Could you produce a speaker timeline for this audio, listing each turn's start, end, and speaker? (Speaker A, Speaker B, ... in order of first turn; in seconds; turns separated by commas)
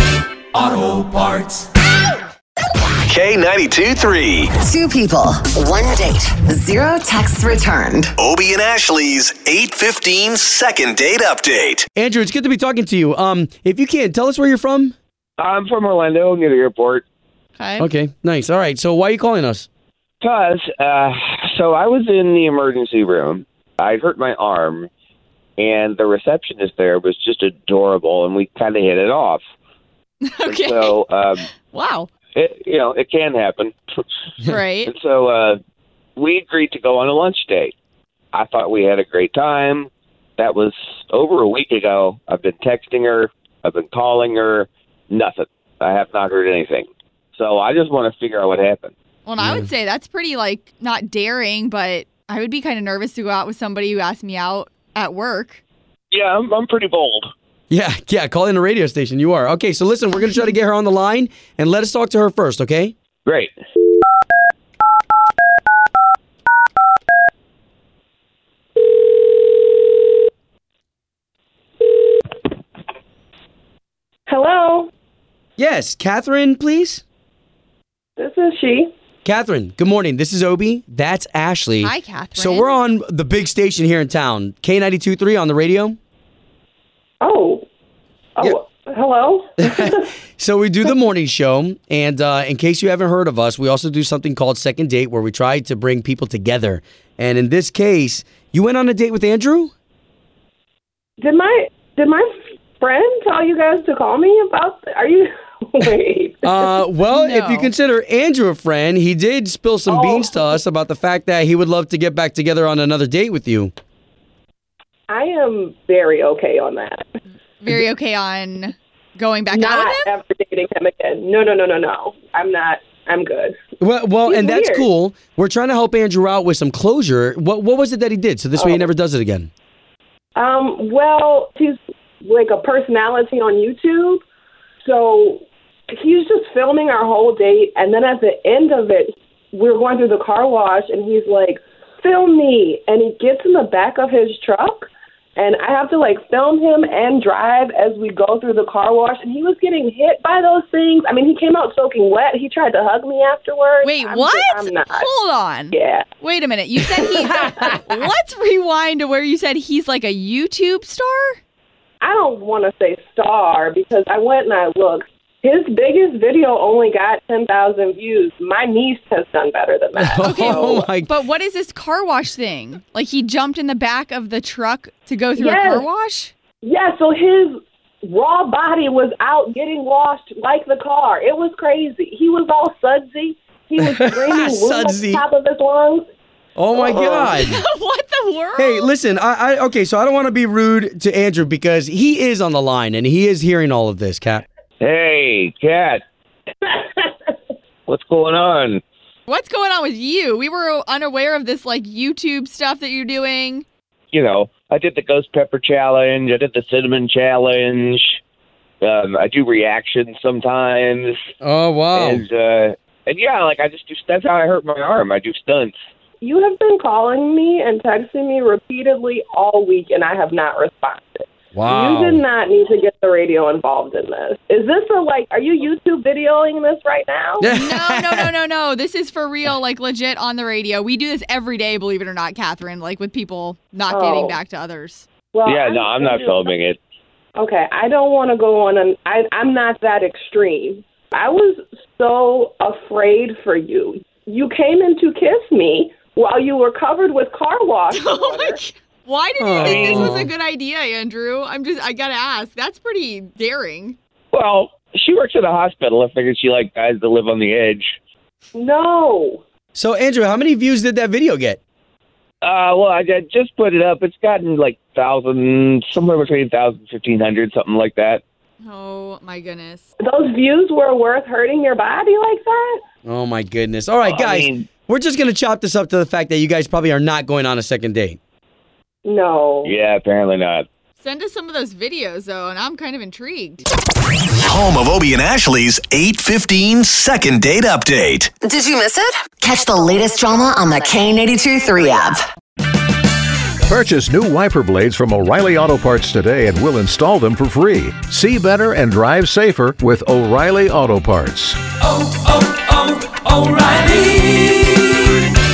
Speaker A: 0.5-1.6, Speaker B: 3.1-4.5, Speaker C: 4.6-8.1, Speaker B: 8.2-11.8, Speaker D: 11.9-14.9, Speaker E: 15.4-17.0, Speaker F: 17.6-17.9, Speaker D: 17.8-19.6, Speaker E: 20.2-24.9, Speaker E: 25.6-29.4, Speaker F: 30.2-31.0, Speaker E: 30.4-31.4, Speaker F: 31.6-32.1, Speaker E: 32.3-33.8, Speaker F: 34.4-34.9, Speaker E: 34.9-35.6, Speaker E: 36.2-37.7, Speaker E: 38.3-48.9, Speaker F: 49.2-55.6, Speaker D: 49.4-49.7, Speaker E: 56.1-57.3, Speaker D: 57.7-62.9, Speaker E: 63.2-63.5, Speaker G: 74.3-74.9, Speaker D: 75.6-77.0, Speaker G: 78.2-78.9, Speaker D: 79.2-86.0, Speaker F: 81.8-82.7, Speaker G: 87.2-87.6, Speaker G: 88.3-90.1, Speaker D: 89.6-99.7, Speaker G: 101.2-106.8, Speaker D: 106.4-113.7, Speaker F: 107.1-107.7, Speaker G: 109.9-110.5, Speaker G: 115.1-117.0, Speaker F: 117.6-120.1, Speaker G: 119.5-123.5, Speaker D: 123.8-129.5, Speaker G: 124.2-124.9, Speaker G: 128.6-128.9, Speaker G: 130.3-134.2, Speaker G: 134.8-155.1, Speaker F: 153.8-161.4, Speaker G: 155.7-156.1, Speaker G: 157.2-157.8, Speaker G: 162.0-170.9, Speaker D: 169.9-171.1, Speaker F: 170.2-176.3, Speaker G: 175.4-175.9, Speaker G: 176.6-186.1, Speaker D: 183.8-185.2, Speaker D: 186.6-187.6, Speaker G: 186.7-187.3, Speaker F: 187.2-188.9, Speaker D: 188.6-194.4, Speaker E: 194.8-196.0, Speaker G: 196.6-197.3, Speaker E: 197.9-198.8, Speaker F: 199.3-203.7, Speaker E: 204.1-208.2, Speaker E: 208.8-211.2, Speaker D: 211.4-212.2, Speaker E: 211.9-215.7, Speaker G: 216.2-227.5, Speaker D: 221.5-222.2, Speaker D: 227.4-228.3, Speaker F: 227.5-235.1, Speaker G: 233.9-234.4, Speaker G: 235.3-236.5, Speaker E: 235.4-236.8, Speaker G: 237.3-248.6, Speaker F: 247.9-253.9, Speaker D: 249.4-250.3, Speaker E: 249.6-250.0, Speaker E: 254.3-257.9, Speaker G: 258.5-259.4, Speaker D: 259.7-261.6, Speaker E: 262.4-268.2, Speaker F: 268.6-269.8, Speaker G: 270.0-272.8, Speaker D: 273.1-278.2, Speaker E: 274.0-274.7, Speaker G: 279.0-279.7, Speaker E: 279.6-280.6, Speaker F: 281.0-283.6, Speaker B: 284.4-288.3, Speaker C: 288.4-292.2, Speaker H: 293.6-301.6, Speaker A: 302.0-304.9